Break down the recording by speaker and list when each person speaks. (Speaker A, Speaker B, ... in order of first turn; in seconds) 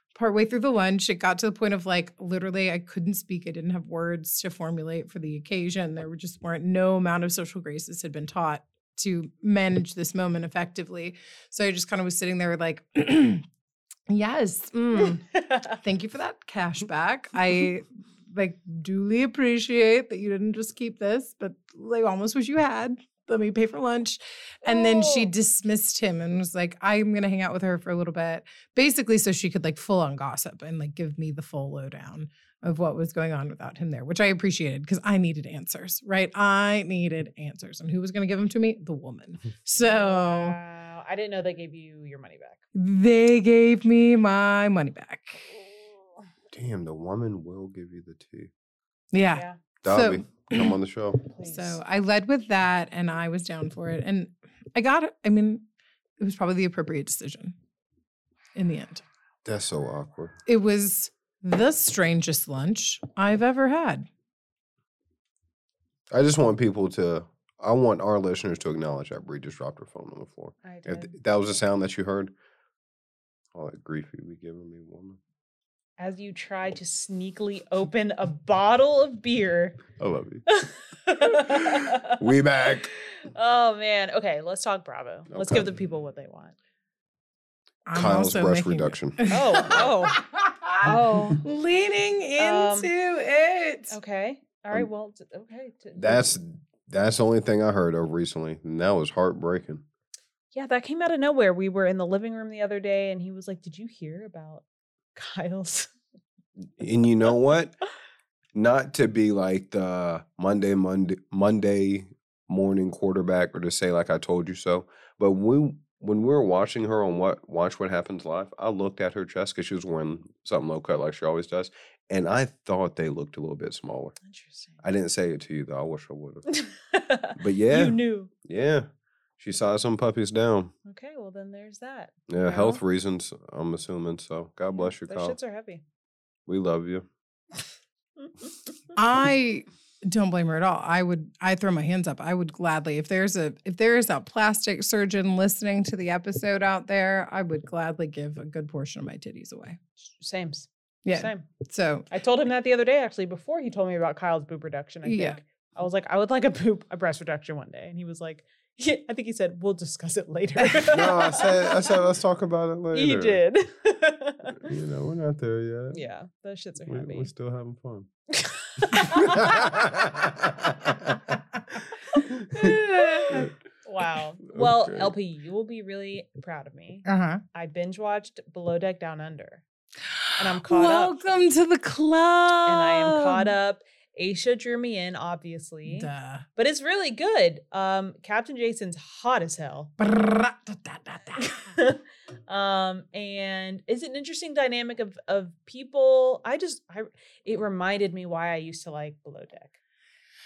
Speaker A: 0.1-13.4, 14.1-40.5, 42.7-45.6, 49.1-50.8, 51.4-55.6, 56.2-57.5, 58.5-59.0, 60.5-64.1, 87.8-94.0, 138.9-149.8, 151.0-152.1, 155.0-155.4, 160.6-160.9, 172.5-173.5, 177.1-177.4, 180.0-183.5, 185.8-186.4, 190.0-191.7
Speaker B: 15.1-15.8, 24.6-25.3, 39.8-42.6, 51.3-51.8, 70.6-71.1, 76.0-79.8, 80.5-86.5, 89.3-90.2, 90.8-91.4, 92.4-92.9, 93.9-96.3, 100.5-105.9, 124.2-124.8, 126.5-128.3, 130.8-132.8, 134.8-135.8, 150.0-151.4, 152.1-162.0, 162.9-164.6, 165.9-167.3, 168.3-169.8, 172.7-179.6, 180.4-181.2, 182.7-189.9, 191.4-199.7
Speaker C: 46.5-48.5, 49.8-51.2, 59.4-60.4, 66.1-72.3, 73.5-75.2, 80.0-80.4, 81.3-82.9, 85.3-85.7, 87.9-89.9, 90.8-91.3, 95.9-99.8, 106.8-107.7, 108.5-124.2, 124.8-126.5, 127.3-128.9, 129.4-130.7, 132.3-135.3, 136.5-137.1, 160.9-163.4, 164.6-166.0, 166.9-168.1, 169.0-172.8, 174.5-175.1